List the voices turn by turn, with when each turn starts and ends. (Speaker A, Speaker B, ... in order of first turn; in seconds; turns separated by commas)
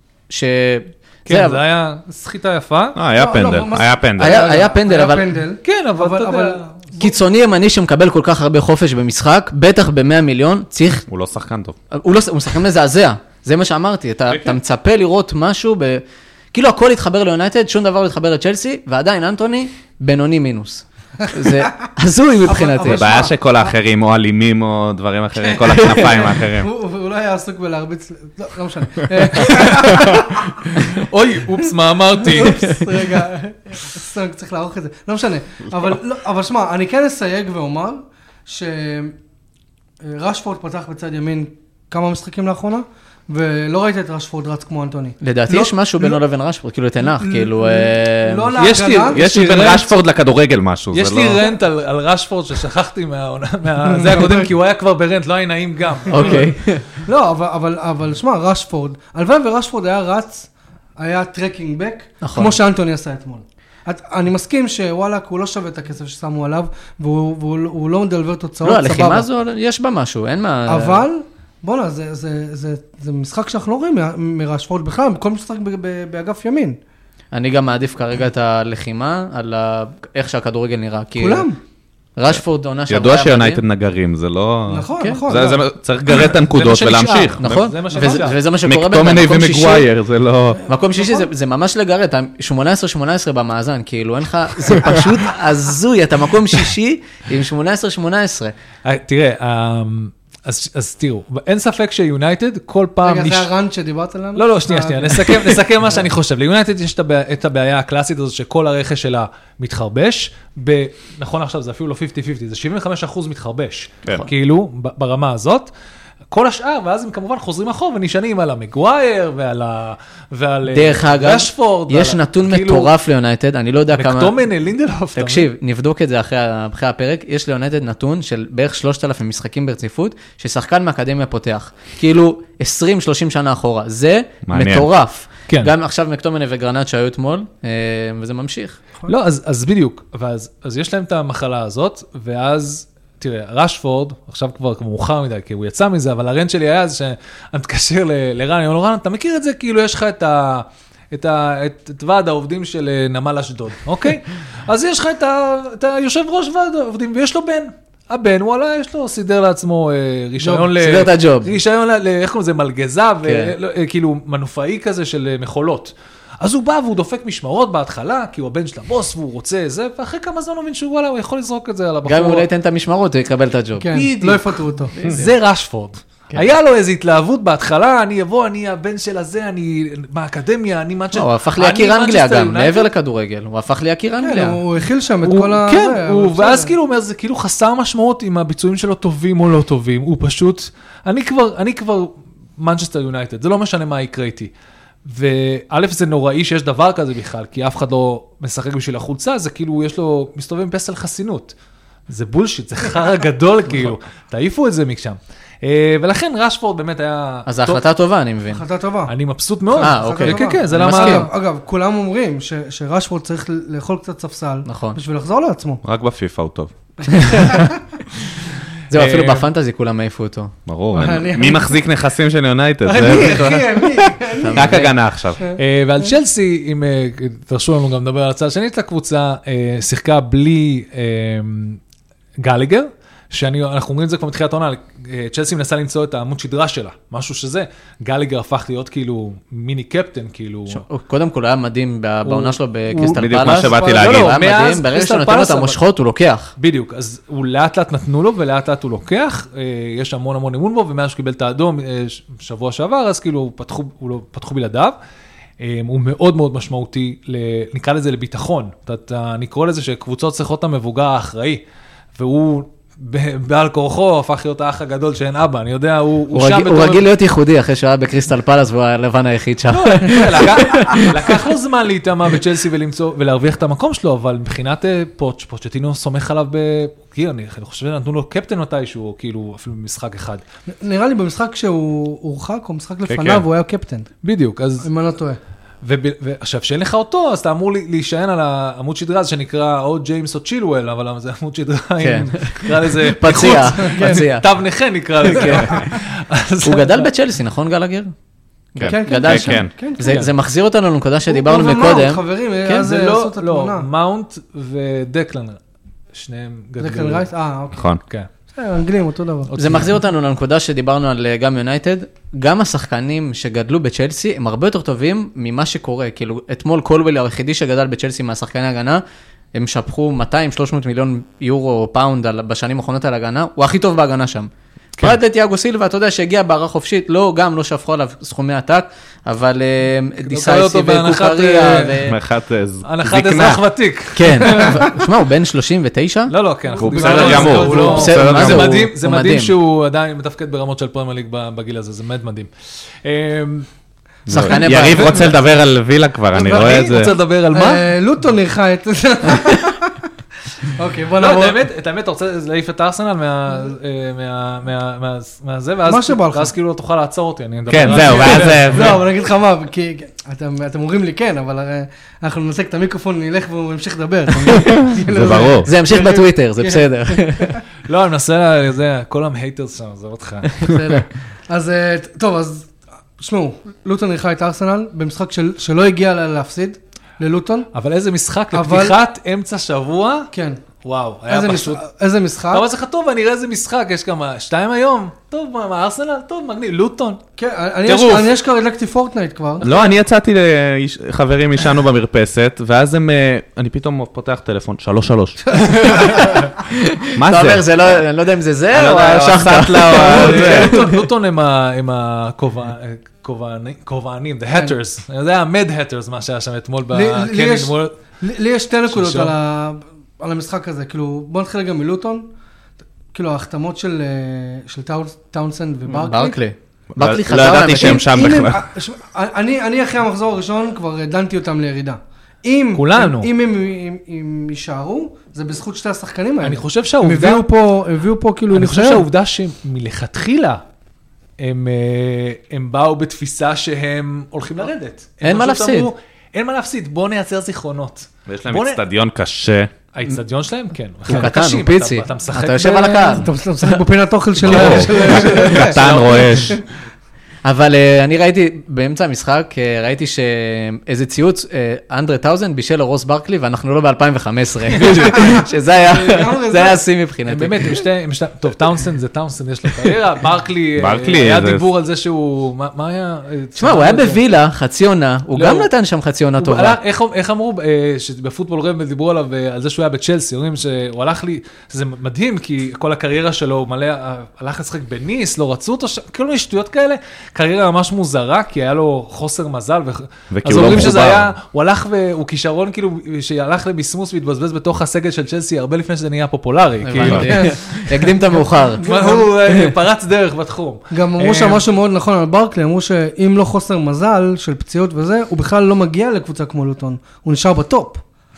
Speaker A: 0.3-1.6, Speaker B: 1.2-3.0, Speaker C: 2.9-4.5, Speaker D: 3.1-7.1, Speaker A: 4.2-5.3, Speaker B: 5.6-6.6, Speaker A: 7.0-11.0, Speaker C: 11.1-11.8, Speaker A: 11.9-23.1, Speaker D: 21.4-21.7, Speaker D: 22.4-23.7, Speaker C: 22.8-26.7, Speaker D: 25.4-31.0, Speaker B: 30.0-32.9, Speaker D: 32.2-39.1, Speaker D: 40.0-46.2, Speaker A: 45.2-48.6, Speaker D: 47.0-49.2, Speaker B: 48.5-49.9, Speaker C: 49.1-51.4, Speaker B: 50.9-56.5, Speaker D: 53.9-54.5, Speaker A: 56.1-56.9, Speaker D: 56.1-69.3, Speaker A: 62.2-62.6, Speaker A: 68.6-71.0, Speaker D: 70.7-76.8, Speaker A: 77.3-81.5, Speaker D: 81.2-81.6, Speaker A: 82.2-83.6, Speaker C: 82.9-87.7, Speaker D: 84.7-85.6, Speaker A: 85.0-85.3, Speaker B: 86.2-88.3, Speaker A: 87.4-89.9, Speaker D: 87.9-88.2, Speaker C: 88.6-90.6, Speaker A: 90.7-98.5, Speaker D: 91.0-91.3, Speaker B: 98.8-103.5, Speaker D: 103.0-105.6, Speaker B: 104.3-115.7, Speaker B: 116.3-122.9, Speaker A: 120.7-124.4, Speaker B: 123.9-125.5, Speaker A: 125.1-138.8, Speaker C: 134.4-134.9, Speaker B: 139.1-172.4, Speaker D: 160.4-160.7, Speaker A: 160.7-161.5, Speaker A: 163.2-163.5, Speaker A: 172.0-174.0, Speaker D: 173.8-174.9, Speaker B: 173.9-182.9, Speaker A: 175.0-175.3, Speaker A: 181.1-184.6, Speaker D: 184.2-186.7, Speaker B: 185.2-194.5, Speaker B: 195.1-201.5, Speaker B: 202.1-207.8, Speaker A: 207.4-208.6, Speaker D: 208.5-209.1, Speaker B: 209.1-211.3, Speaker D: 209.7-215.8, Speaker A: 209.8-211.3, Speaker A: 214.6-215.0, Speaker C: 215.8-216.7, Speaker D: 217.0-217.8, Speaker A: 218.9-220.5, Speaker B: 218.9-219.5, Speaker C: 220.7-225.4, Speaker D: 220.9-221.8, Speaker D: 222.8-224.8, Speaker A: 224.4-224.9, Speaker D: 225.4-226.1, Speaker B: 225.5-231.8, Speaker B: 232.4-240.8, Speaker A: 240.7-246.5, Speaker B: 242.2-245.8, Speaker C: 243.2-244.4, Speaker D: 243.7-244.0, Speaker B: 246.6-254.9, Speaker B: 255.6-261.6, Speaker B: 262.2-267.0, Speaker A: 266.3-271.4, Speaker B: 269.7-280.4, Speaker D: 280.8-284.1, Speaker C: 283.1-283.4, Speaker B: 284.2-284.9, Speaker D: 284.8-285.4, Speaker B: 285.8-297.1, Speaker A: 292.0-294.5, Speaker D: 293.8-294.2, Speaker A: 295.2-295.9, Speaker A: 296.6-298.1, Speaker A: 298.7-302.9, Speaker C: 298.8-299.7, Speaker D: 298.9-300.3, Speaker D: 301.3-303.9, Speaker B: 302.8-305.6, Speaker B: 306.1-307.3, Speaker D: 306.8-307.9, Speaker C: 307.7-308.0, Speaker D: 308.5-309.8, Speaker B: 309.5-310.0, Speaker A: 309.6-319.0, Speaker A: 319.5-332.2, Speaker B: 330.2-332.1, Speaker C: 332.1-333.6, Speaker B: 332.8-334.9, Speaker A: 334.1-336.3, Speaker D: 334.5-334.9, Speaker B: 336.3-342.5, Speaker D: 336.7-338.2, Speaker C: 336.8-338.9, Speaker A: 337.6-339.5, Speaker B: 343.0-343.7, Speaker C: 344.3-347.1, Speaker A: 344.3-345.3, Speaker B: 346.3-347.9, Speaker D: 346.4-350.1, Speaker D: 350.6-351.6, Speaker B: 351.2-359.0, Speaker D: 355.9-356.5, Speaker C: 357.7-359.0, Speaker D: 357.9-367.4, Speaker C: 364.9-365.7, Speaker A: 365.6-367.6, Speaker B: 367.9-370.7, Speaker D: 370.6-377.7, Speaker B: 377.7-380.3, Speaker D: 378.5-379.0, Speaker D: 380.3-380.6, Speaker B: 380.8-381.8, Speaker D: 381.3-382.6, Speaker B: 382.5-387.2, Speaker D: 387.4-389.6, Speaker B: 387.9-388.3, Speaker C: 389.6-396.5, Speaker D: 395.7-396.1, Speaker A: 395.7-401.0, Speaker C: 397.1-397.6, Speaker C: 398.7-400.8, Speaker B: 399.9-407.9, Speaker D: 406.9-412.3, Speaker B: 408.9-409.3, Speaker D: 413.1-416.4, Speaker A: 415.9-418.1, Speaker C: 416.9-418.6, Speaker D: 417.5-429.1, Speaker B: 422.7-423.3, Speaker B: 426.4-427.5, Speaker B: 428.5-430.6, Speaker B: 431.4-438.8, Speaker A: 435.2-435.9, Speaker C: 438.3-439.7, Speaker B: 439.9-443.2, Speaker A: 441.1-443.3, Speaker D: 443.0-446.5, Speaker C: 444.4-446.6, Speaker B: 444.4-446.6, Speaker A: 447.4-457.8, Speaker D: 454.8-456.8, Speaker B: 457.3-464.2, Speaker C: 460.8-461.6, Speaker A: 463.6-466.8, Speaker B: 465.3-465.7, Speaker B: 466.4-488.1, Speaker C: 480.3-481.3, Speaker A: 486.8-489.7, Speaker D: 487.0-487.6, Speaker D: 488.8-489.3, Speaker B: 488.8-491.6, Speaker D: 490.9-498.0